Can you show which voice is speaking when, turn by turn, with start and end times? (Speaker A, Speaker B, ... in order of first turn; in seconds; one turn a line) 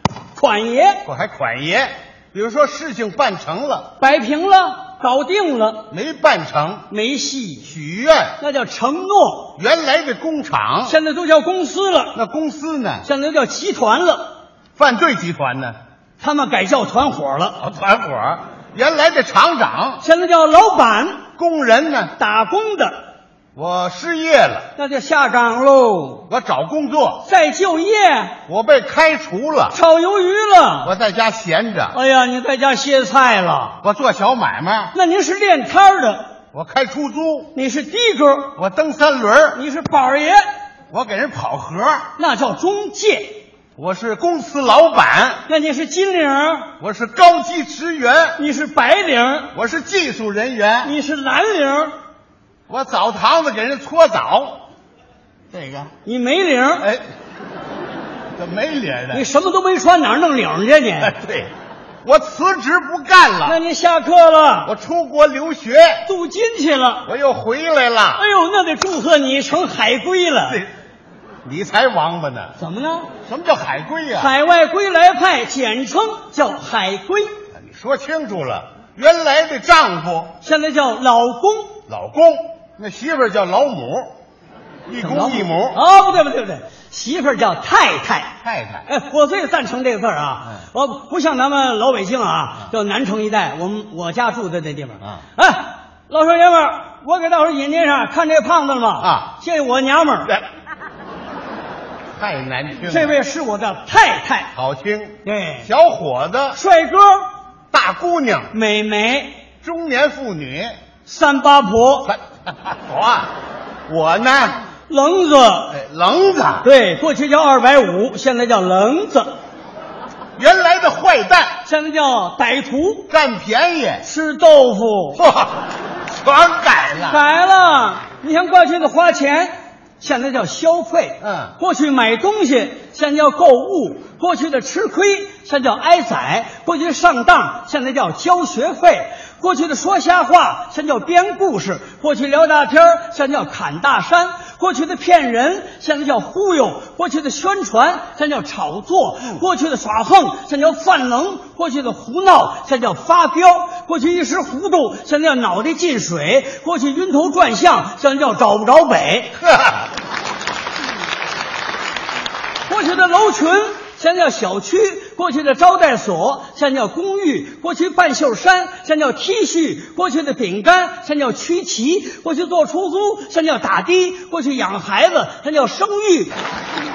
Speaker A: 0.3-1.0
Speaker B: 1.0-3.9
Speaker A: 4.0-5.9
Speaker B: 5.9-6.8
Speaker A: 6.9-7.7
Speaker B: 7.6-8.4
Speaker A: 8.4-9.5
Speaker B: 9.6-10.9
Speaker A: 10.8-12.2
Speaker B: 12.1-13.1
Speaker A: 13.0-14.3
Speaker B: 14.8-15.8
Speaker A: 16.2-17.6
Speaker B: 17.6-20.0
Speaker A: 20.0-21.2
Speaker B: 21.4-22.1
Speaker A: 22.1-23.0
Speaker B: 23.5-24.7
Speaker A: 24.8-26.3
Speaker B: 26.3-27.2
Speaker A: 27.2-28.4
Speaker B: 28.5-29.8
Speaker A: 29.7-30.9
Speaker B: 30.8-32.0
Speaker A: 31.9-33.8
Speaker B: 33.8-34.9
Speaker A: 34.9-36.3
Speaker B: 36.5-37.5
Speaker A: 37.5-38.5
Speaker B: 38.5-39.6
Speaker A: 39.5-40.4
Speaker B: 40.9-42.1
Speaker A: 42.1-43.4
Speaker B: 43.8-45.4
Speaker A: 45.5-46.7
Speaker B: 46.8-48.4
Speaker A: 48.4-49.5
Speaker B: 49.5-50.9
Speaker A: 50.8-51.9
Speaker B: 52.7-54.6
Speaker B: 55.5-55.9
Speaker A: 56.0-56.9
Speaker B: 58.4-59.2
Speaker A: 59.1-61.1
Speaker B: 61.0-61.5
Speaker B: 62.0-63.6
Speaker A: 63.4-64.7
Speaker B: 64.6-66.1
Speaker A: 66.0-67.1
Speaker B: 67.0-68.2
Speaker A: 68.2-70.6
Speaker B: 71.4-72.5
Speaker A: 72.6-73.1
Speaker B: 73.2-74.3
Speaker A: 74.1-77.3
Speaker B: 77.5-80.3
Speaker A: 80.4-81.8
Speaker B: 81.9-84.1
Speaker B: 84.9-85.8
Speaker A: 85.0-100.4
Speaker B: 88.4-88.9
Speaker B: 99.0-99.3
Speaker B: 102.2-103.1
Speaker A: 102.8-104.5
Speaker B: 104.5-106.6
Speaker A: 105.2-105.7
Speaker A: 106.5-107.3
Speaker B: 107.7-108.5
Speaker A: 108.5-109.4
Speaker B: 109.6-110.7
Speaker A: 111.0-112.1
Speaker B: 112.1-113.3
Speaker B: 113.9-114.6
Speaker A: 114.9-115.7
Speaker B: 115.7-116.7
Speaker A: 116.6-119.3
Speaker B: 120.4-121.6
Speaker A: 121.6-123.1
Speaker B: 123.1-124.0
Speaker A: 124.0-125.2
Speaker B: 125.2-125.7
Speaker B: 126.2-127.2
Speaker A: 127.1-159.4
Speaker B: 131.2-131.5
Speaker B: 159.5-159.8
Speaker A: 162.7-176.3